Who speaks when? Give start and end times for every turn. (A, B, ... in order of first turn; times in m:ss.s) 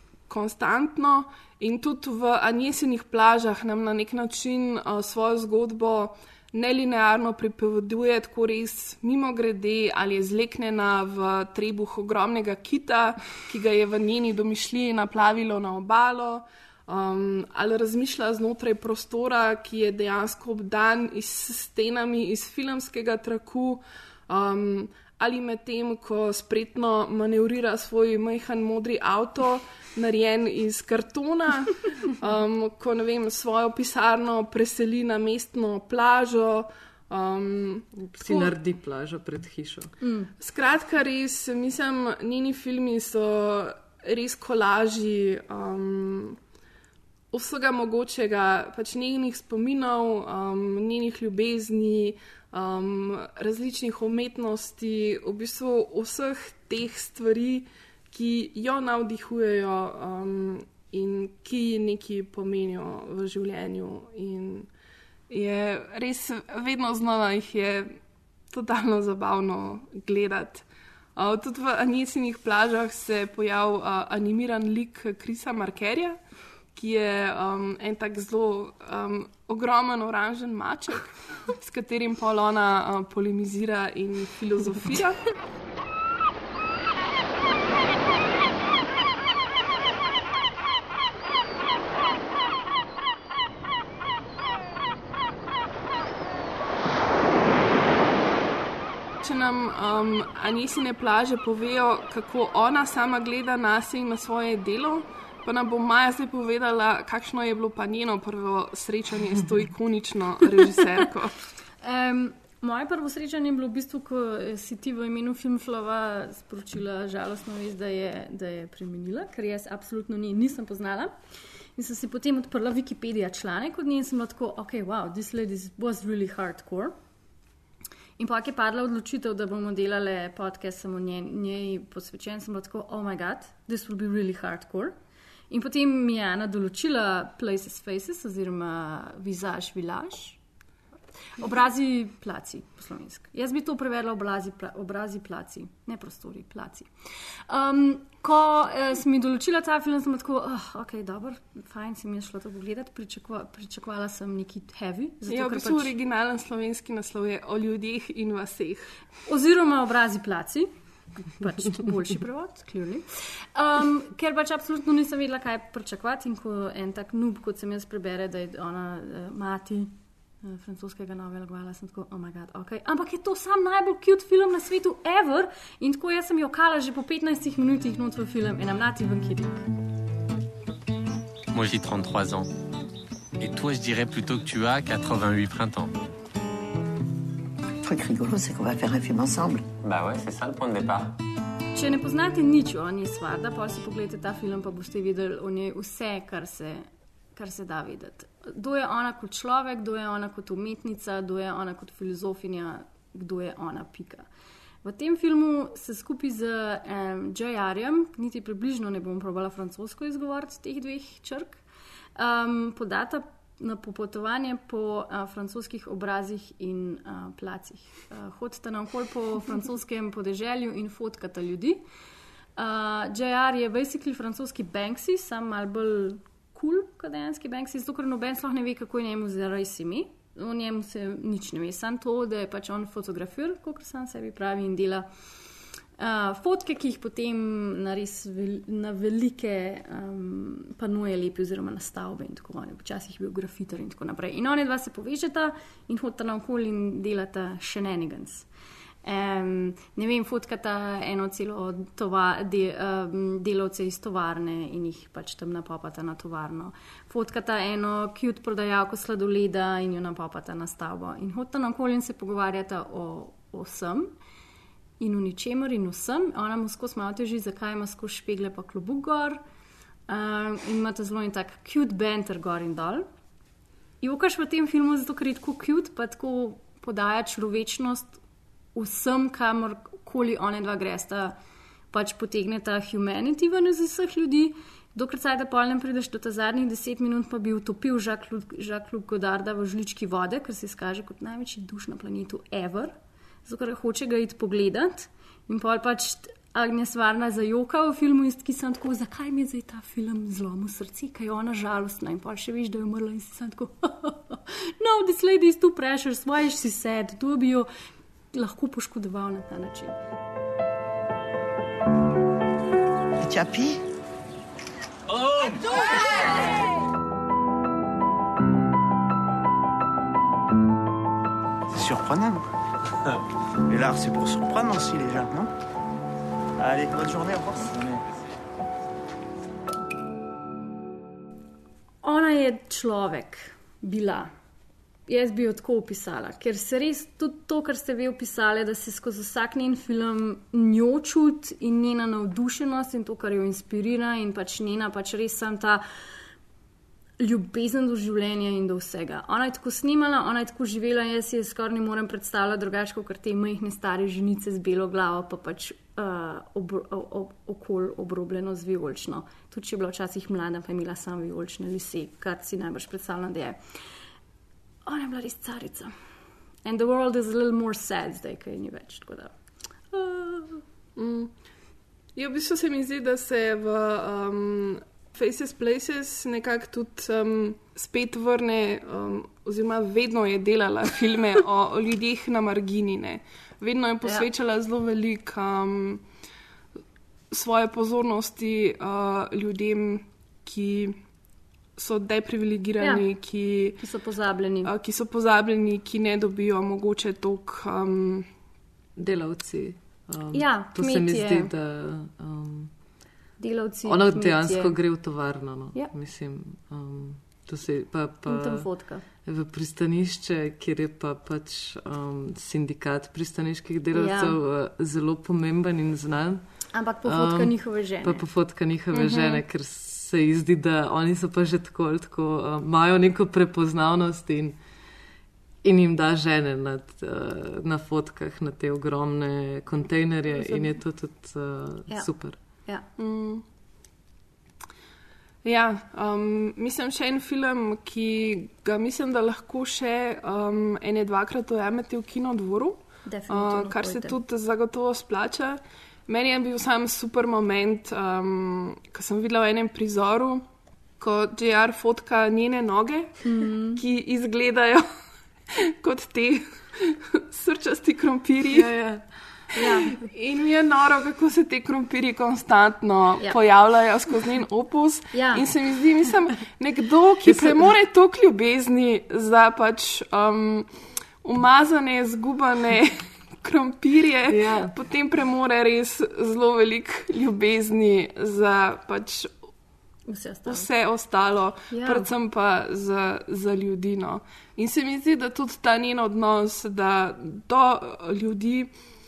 0:00.3-0:38.6 A
0:38.0-0:39.9 B
0:40.0-0:40.3 C
0:40.4-0:46.4 A
0:47.3-1:04.7 A
1:05.3-1:08.0 A
1:08.5-1:10.6 A
1:11.2-1:16.2 A
1:16.8-1:25.2 A
1:39.2-1:51.4 A
1:51.8-2:01.1 C
2:01.8-2:07.0 C
2:08.2-2:15.0 C
2:15.5-2:20.4 C
2:21.4-2:26.9 C
2:27.5-2:35.9 C
2:35.3-2:38.9 A
2:39.3-2:40.7 C
2:41.2-2:59.7 C
3:01.5-3:02.5 D
3:03.4-3:05.9 D
3:07.8-3:09.7 E
3:09.8-3:11.2 D
3:11.7-3:24.3 C
3:24.8-3:31.6 C
3:32.2-3:41.8 C
3:42.6-3:55.1 C
3:56.0-4:08.5 C
4:09.0-4:24.1 C
4:25.0-4:29.4 C
4:30.1-4:33.1 C
4:34.0-4:38.2 C
4:38.8-4:41.4 C
4:41.9-4:53.0 C
4:53.5-5:07.7 C
5:08.3-5:10.0 C
5:13.2-5:13.8 E
5:15.2-5:15.5 F
5:21.7-5:22.5 F
5:23.7-5:25.5 F
5:26.6-5:28.0 F
5:32.0-5:34.3 C
5:35.1-5:45.8 C
5:47.2-6:03.6 C
6:04.9-6:05.9 C
6:06.6-6:09.3 C
6:09.9-6:10.6 C
6:11.0-6:11.3 A
6:12.2-6:26.0 A
6:27.3-6:31.0 A
6:31.8-6:33.8 A
6:33.8-6:34.7 C
6:34.6-6:38.3 A
6:39.0-6:42.7 B
6:40.3-6:41.5 C
6:43.4-6:44.8 C
6:43.8-6:48.7 B
6:48.3-6:49.0 C
6:49.2-6:56.4 B
6:53.9-6:54.4 C
6:56.7-6:58.2 C
6:57.0-7:04.6 B
6:59.0-6:59.4 A
7:05.6-7:12.4 B
7:13.0-7:13.4 A
7:15.4-7:30.4 A
7:23.1-7:24.2 C
7:31.0-7:33.2 A
7:33.2-7:33.8 C
7:33.8-7:34.9 A
7:35.5-7:38.7 A
7:38.5-7:39.0 B
7:39.6-7:40.0 C
7:39.9-7:50.7 A
7:45.1-7:45.4 C
7:47.3-7:47.6 B
7:51.2-7:59.3 A
7:54.3-7:54.7 B
8:00.1-8:00.7 C
8:00.5-8:08.7 A
8:01.7-8:02.1 C